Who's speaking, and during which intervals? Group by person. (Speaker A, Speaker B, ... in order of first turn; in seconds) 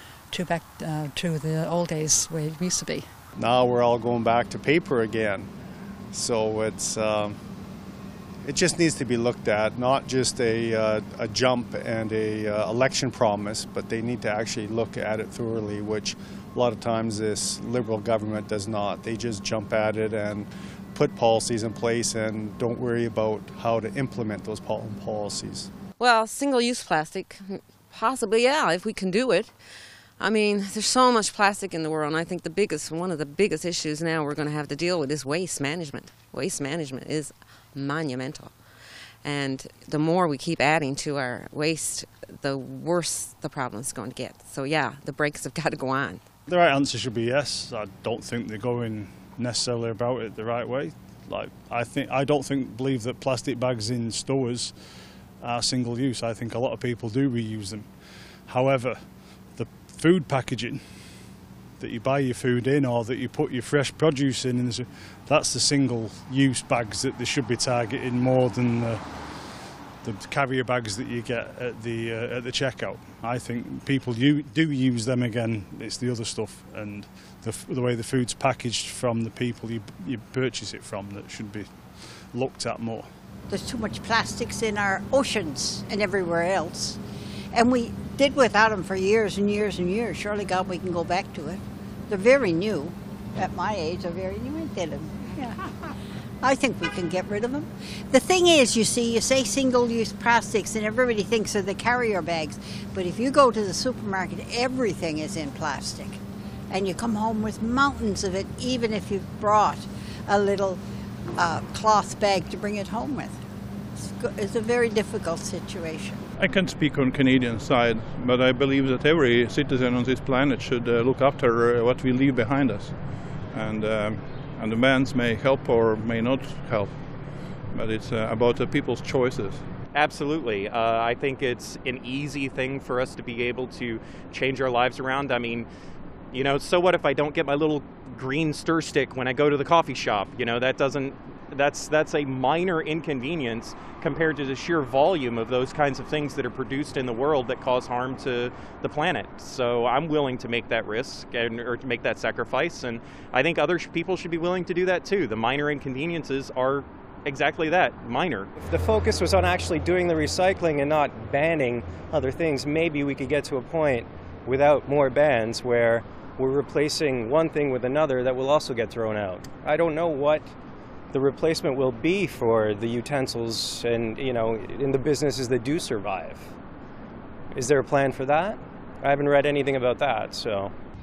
Speaker A: 0.3-3.1
Speaker B: 3.4-5.5, 6.1-7.4, 8.4-25.7
Speaker C: 26.0-29.6, 30.2-46.2
Speaker D: 46.5-83.1
Speaker E: 83.5-87.0, 87.5-106.2, 106.7-110.8, 111.3-113.4, 114.0-116.2
Speaker F: 116.4-129.7
Speaker G: 129.9-135.7, 136.3-158.5
Speaker H: 158.6-170.5, 171.1-176.5, 177.5-180.7